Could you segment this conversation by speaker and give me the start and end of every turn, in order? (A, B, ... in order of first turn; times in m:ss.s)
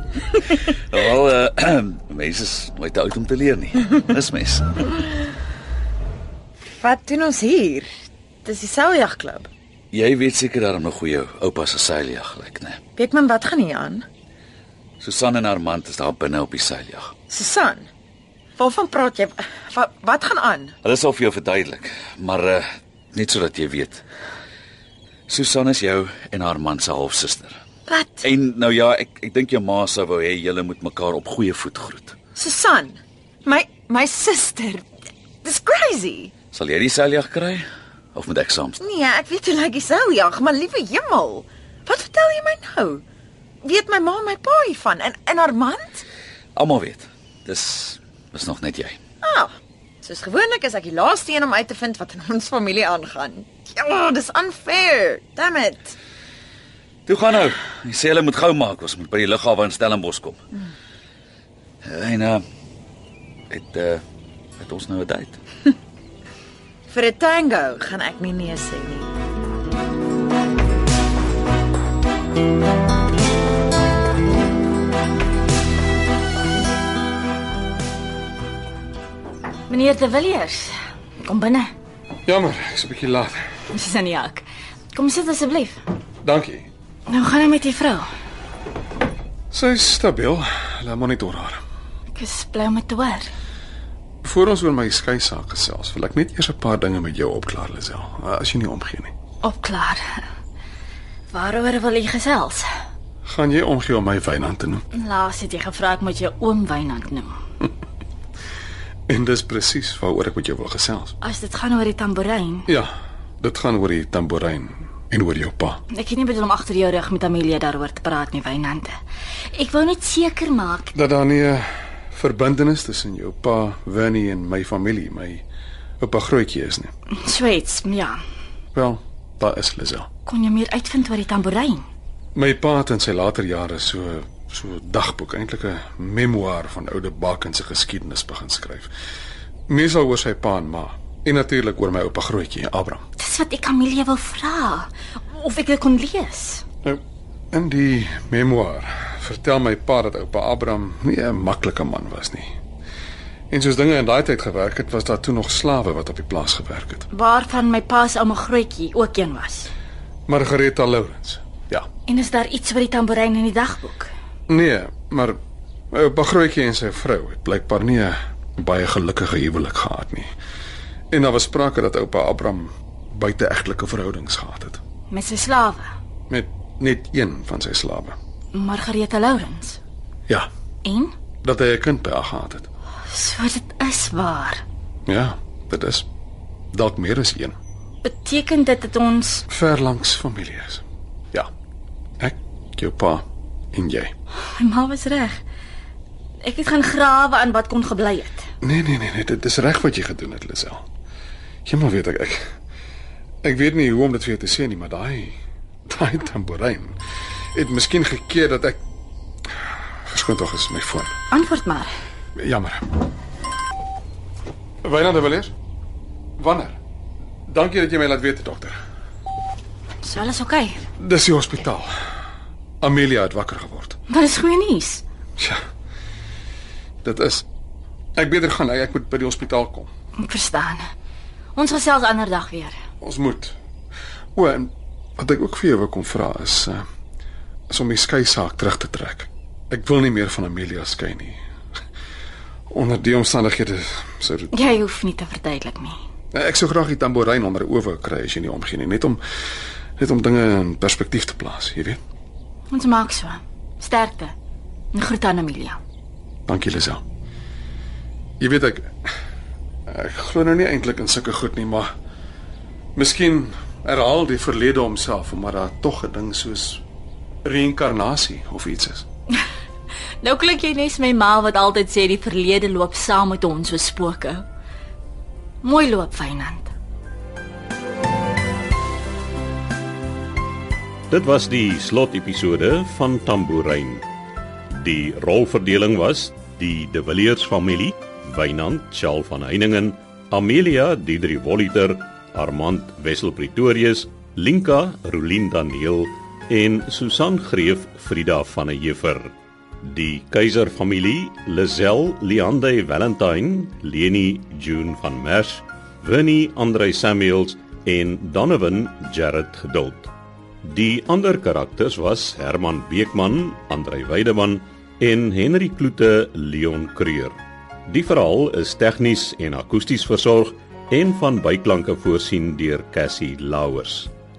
0:00.3-0:00.6 A
0:00.3-0:05.0 B
0:06.7-0:07.9 A
0:08.4-0:09.5 A
0:09.9-0:12.8 B
0:13.0-0:14.0 A
0:15.0-0:17.1 B
0:17.3-0:17.9 A
0:18.6-0:20.7 A
0:20.8-0:24.0 B
0:25.3-0:27.6 B
0:27.9-0:28.2 A
0:28.2-0:32.2 B
0:32.4-0:34.8 A
0:35.4-0:36.3 A
0:36.5-0:38.8 B
0:38.8-0:43.0 A
0:43.6-0:46.0 A
0:46.6-0:49.0 B
0:49.2-0:49.5 A
0:50.0-0:56.0 A
0:57.1-1:00.4 B
1:01.8-1:02.4 B
1:03.5-1:04.0 B
1:04.6-1:05.4 B
1:06.9-1:09.1 A
1:19.7-1:21.7 C
1:22.2-1:23.4 D
1:23.7-1:25.8 C
1:26.2-1:26.7 D
1:27.1-1:28.1 C
1:29.5-1:31.6 D
1:32.2-1:33.3 C
1:34.2-1:39.1 D
1:39.4-1:40.2 C
1:41.3-1:42.6 C
1:43.2-1:44.8 D
1:45.0-1:47.4 C
1:49.1-1:51.1 D
1:51.2-1:52.7 C
1:52.7-1:55.8 D
1:55.9-1:59.0 C
1:59.5-2:00.9 C
2:00.9-2:05.4 D
2:06.0-2:06.9 D
2:07.2-2:08.2 C
2:08.7-2:10.1 D
2:10.2-2:11.9 C
2:12.4-2:18.9 D
2:19.7-2:23.0 D
2:23.2-2:26.6 C
2:27.5-2:32.5 D
2:33.5-2:37.1 D
2:37.1-2:39.7 C
2:40.3-2:41.9 D
2:42.1-2:44.1 C
2:44.5-2:45.4 D
2:45.9-2:50.3 D
2:51.1-2:54.8 D
2:55.1-2:55.9 C
2:56.3-2:58.2 D
2:58.5-2:59.8 C
3:00.8-3:01.1 C
3:01.4-3:02.7 D
3:03.1-3:04.6 C
3:05.1-3:06.1 D
3:06.7-3:07.6 D
3:08.0-3:09.4 C
3:09.5-3:11.5 D
3:12.2-3:14.1 D
3:14.5-3:15.4 C
3:16.4-3:18.5 C
3:18.6-3:20.8 D
3:21.6-3:22.4 D
3:23.4-3:25.4 D
3:25.9-3:27.0 D
3:27.6-3:28.8 D
3:30.1-3:31.1 D
3:31.3-3:31.9 C
3:32.4-3:32.8 D
3:34.8-3:35.5 D
3:36.4-3:36.8 D
3:37.5-3:38.8 D
3:40.0-3:40.8 C
3:41.0-3:41.9 D
3:42.8-3:44.0 D
3:44.1-3:45.0 C
3:47.0-3:47.5 D
3:48.2-3:49.9 D
3:50.2-3:50.8 C
3:51.6-3:52.8 C
3:53.0-3:53.6 D
3:54.4-3:56.8 D
3:57.7-4:01.4 D
4:02.7-4:04.6 D
4:04.5-4:06.0 C
4:06.3-4:09.2 D
4:10.0-4:12.0 D
4:12.7-4:14.3 C
4:14.9-4:15.8 C
4:16.5-4:17.0 D
4:18.4-4:18.9 D
4:19.9-4:21.9 D
4:23.0-4:26.8 D
4:27.4-4:29.0 D
4:30.2-4:34.4 C
4:35.6-4:36.7 C
4:41.1-4:44.0 E
4:44.7-5:10.1 E
5:10.6-5:17.4 E
5:17.9-5:24.1 E